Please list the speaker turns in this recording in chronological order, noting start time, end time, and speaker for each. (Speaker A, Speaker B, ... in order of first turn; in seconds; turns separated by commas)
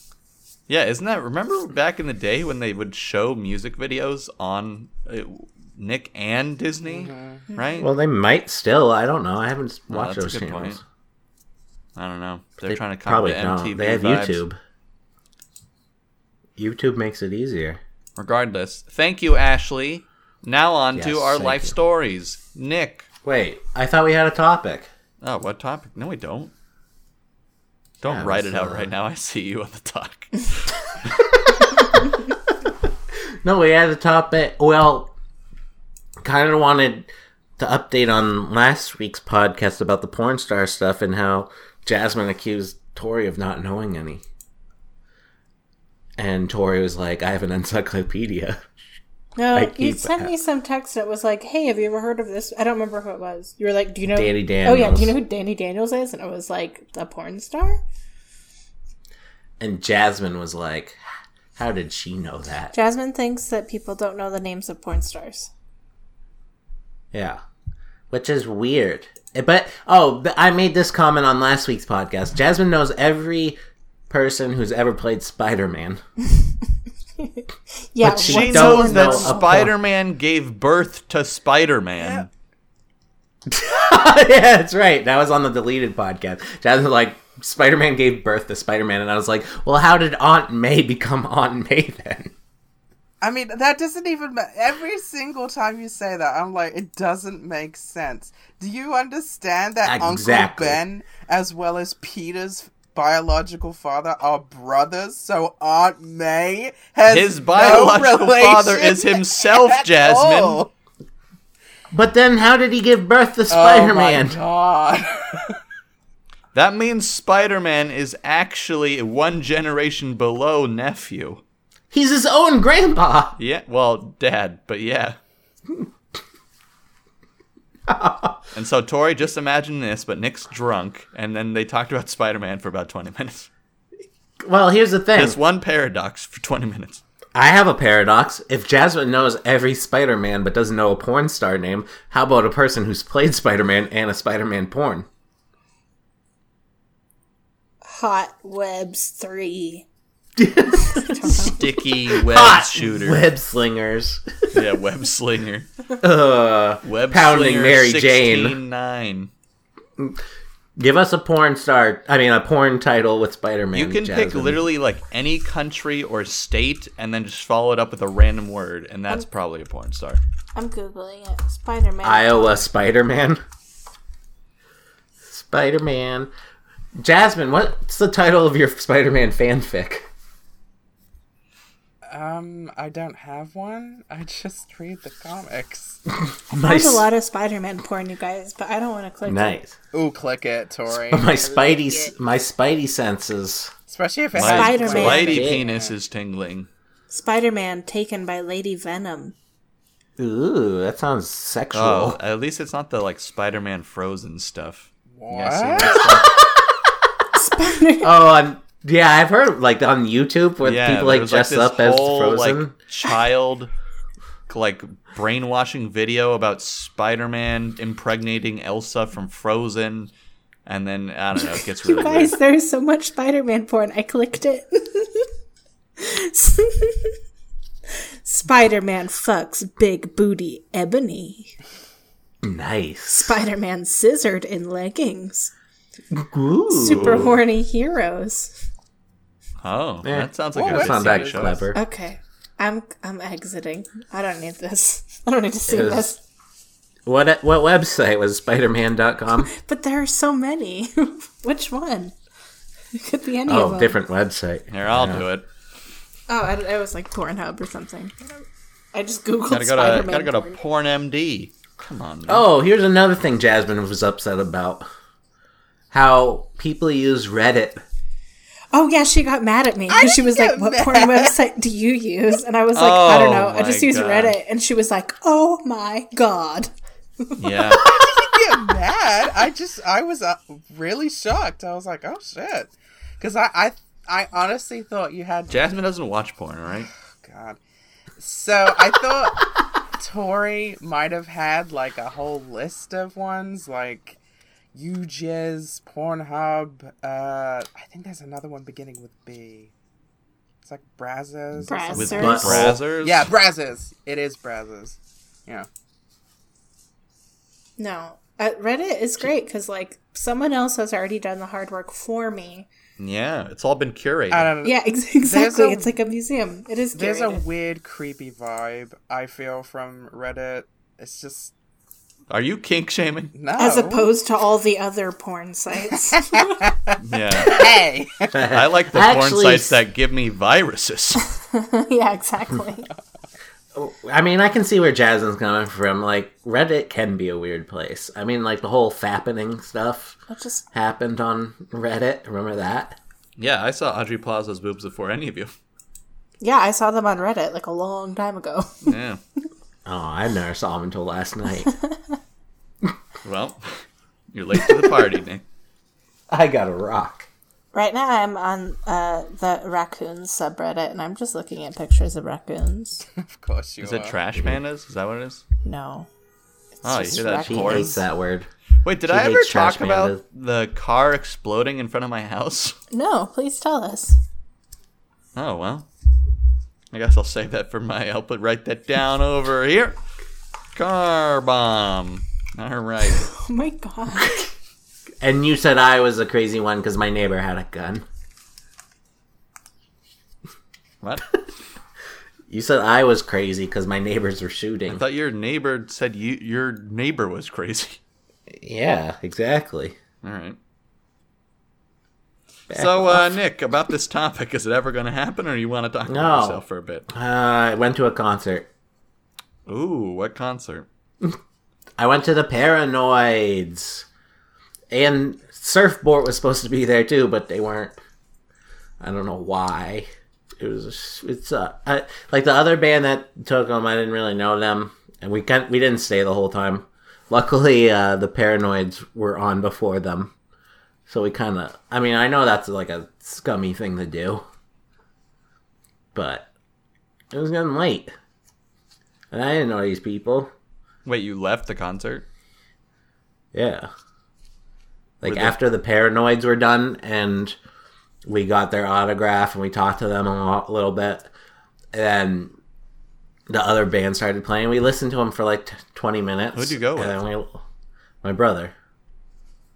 Speaker A: 0.7-7.9, Speaker B: 6.8-7.4, Speaker C: 7.5-7.8, Speaker D: 7.8-10.8, Speaker A: 9.9-10.8, Speaker A: 11.9-14.4, Speaker D: 12.6-14.6, Speaker D: 16.6-17.8, Speaker A: 18.2-23.1, Speaker D: 20.9-21.7, Speaker D: 23.2-24.9, Speaker A: 25.2-26.5, Speaker A: 28.0-30.7, Speaker D: 28.1-28.9, Speaker D: 31.2-31.9, Speaker D: 33.4-35.1, Speaker D: 36.2-44.2, Speaker D: 46.2-48.6, Speaker C: 49.4-57.8, Speaker D: 49.5-50.3, Speaker D: 54.1-55.1, Speaker D: 59.6-61.0, Speaker D: 61.5-62.7, Speaker C: 62.7-65.5, Speaker D: 67.1-67.4, Speaker D: 68.1-73.6, Speaker D: 74.1-76.0, Speaker C: 77.2-79.6, Speaker D: 78.0-79.7, Speaker A: 78.2-82.3, Speaker B: 82.0-82.3, Speaker D: 83.5-92.3, Speaker B: 93.2-110.7, Speaker D: 99.8-100.8, Speaker A: 107.1-110.6, Speaker D: 111.9-114.4, Speaker B: 113.5-115.6, Speaker A: 116.5-121.4, Speaker D: 121.9-123.3, Speaker A: 123.4-125.2, Speaker D: 127.9-128.4, Speaker A: 128.5-133.5, Speaker D: 134.4-135.4, Speaker A: 135.1-137.0, Speaker D: 137.3-145.1, Speaker C: 147.8-149.8, Speaker D: 150.3-151.2, Speaker C: 150.7-151.7, Speaker A: 151.3-153.2, Speaker D: 152.1-154.2, Speaker A: 154.5-155.7, Speaker D: 156.0-158.6, Speaker A: 156.8-159.3, Speaker D: 160.8-164.7, Speaker A: 163.7-170.2, Speaker C: 170.5-172.7, Speaker D: 172.0-173.4, Speaker D: 175.2-176.3, Speaker D: 177.0-180.1, Speaker B: 182.1-186.0, Speaker D: 186.5-187.1, Speaker C: 186.5-189.6, Speaker D: 189.2-189.8, Speaker B: 189.9-191.7, Speaker D: 190.9-193.7, Speaker B: 193.9-195.9, Speaker A: 194.3-196.7, Speaker C: 194.4-195.4, Speaker D: 194.8-195.6, Speaker C: 197.1-199.3, Speaker D: 200.2-202.2, Speaker A: 201.7-206.4, Speaker B: 205.1-206.2, Speaker D: 206.0-206.4, Speaker C: 207.3-208.1, Speaker D: 208.0-212.7, Speaker A: 210.6-213.7, Speaker A: 214.5-220.1, Speaker A: 220.7-222.3, Speaker C: 221.4-225.3, Speaker C: 226.0-227.1, Speaker C: 228.2-231.5, Speaker D: 232.4-233.4, Speaker C: 233.2-235.5, Speaker D: 236.1-237.3, Speaker C: 236.7-238.5, Speaker A: 239.6-241.6, Speaker D: 240.0-241.8, Speaker B: 240.5-241.7, Speaker C: 241.7-246.2, Speaker D: 245.7-246.1, Speaker D: 247.1-249.5, Speaker C: 249.5-252.1, Speaker C: 252.9-254.0, Speaker D: 253.4-255.2, Speaker A: 254.7-255.4, Speaker C: 256.3-260.6, Speaker A: 259.5-262.4, Speaker D: 262.3-264.9, Speaker D: 265.9-267.8, Speaker C: 268.7-277.8, Speaker B: 269.9-271.4, Speaker A: 272.7-274.4, Speaker A: 277.4-277.8, Speaker B: 277.7-285.6, Speaker A: 285.5-286.9, Speaker B: 287.2-287.6, Speaker B: 288.2-294.2, Speaker B: 294.7-299.7, Speaker B: 300.6-305.7, Speaker C: 301.6-302.5, Speaker A: 301.9-303.3, Speaker D: 302.2-302.8, Speaker C: 307.8-312.7, Speaker A: 313.0-314.5, Speaker B: 314.3-315.9, Speaker C: 314.6-317.4, Speaker B: 316.9-321.5, Speaker A: 322.3-323.3, Speaker B: 323.3-324.1, Speaker C: 323.6-326.5, Speaker B: 326.2-328.4, Speaker A: 327.0-327.6, Speaker D: 328.3-329.8, Speaker A: 328.5-331.2, Speaker C: 331.5-332.9, Speaker D: 333.7-340.2, Speaker C: 340.3-340.7, Speaker D: 340.7-343.0, Speaker A: 343.4-345.5, Speaker C: 346.4-348.9, Speaker A: 348.8-349.2, Speaker D: 349.9-351.7, Speaker C: 351.6-352.1, Speaker A: 353.2-353.8, Speaker A: 354.3-355.4, Speaker D: 356.3-357.3, Speaker C: 357.7-363.0, Speaker B: 363.0-364.2, Speaker A: 363.8-365.4, Speaker C: 365.6-366.1, Speaker C: 366.8-368.0, Speaker A: 366.8-368.0, Speaker D: 367.4-368.5, Speaker A: 368.8-372.8, Speaker D: 369.0-370.2, Speaker C: 372.9-374.2, Speaker A: 375.3-375.9, Speaker A: 376.9-380.0, Speaker A: 380.7-383.3, Speaker C: 383.3-384.4, Speaker D: 385.2-388.0, Speaker A: 391.0-391.4, Speaker D: 392.5-395.0, Speaker A: 394.9-398.0, Speaker D: 398.5-400.0, Speaker A: 400.2-400.6, Speaker D: 402.7-403.3, Speaker A: 402.7-407.1, Speaker D: 406.1-408.7, Speaker A: 409.7-410.9, Speaker D: 412.0-414.1, Speaker D: 414.9-418.0, Speaker D: 419.0-420.1, Speaker D: 420.6-430.3, Speaker D: 431.1-434.4, Speaker D: 436.1-436.5, Speaker D: 437.3-438.1, Speaker D: 439.3-440.5, Speaker A: 441.0-442.2, Speaker D: 443.5-443.9, Speaker D: 445.2-447.6, Speaker A: 445.2-445.5, Speaker D: 448.2-451.3, Speaker D: 451.9-452.5, Speaker D: 453.5-457.6, Speaker A: 456.5-457.2, Speaker D: 458.2-458.7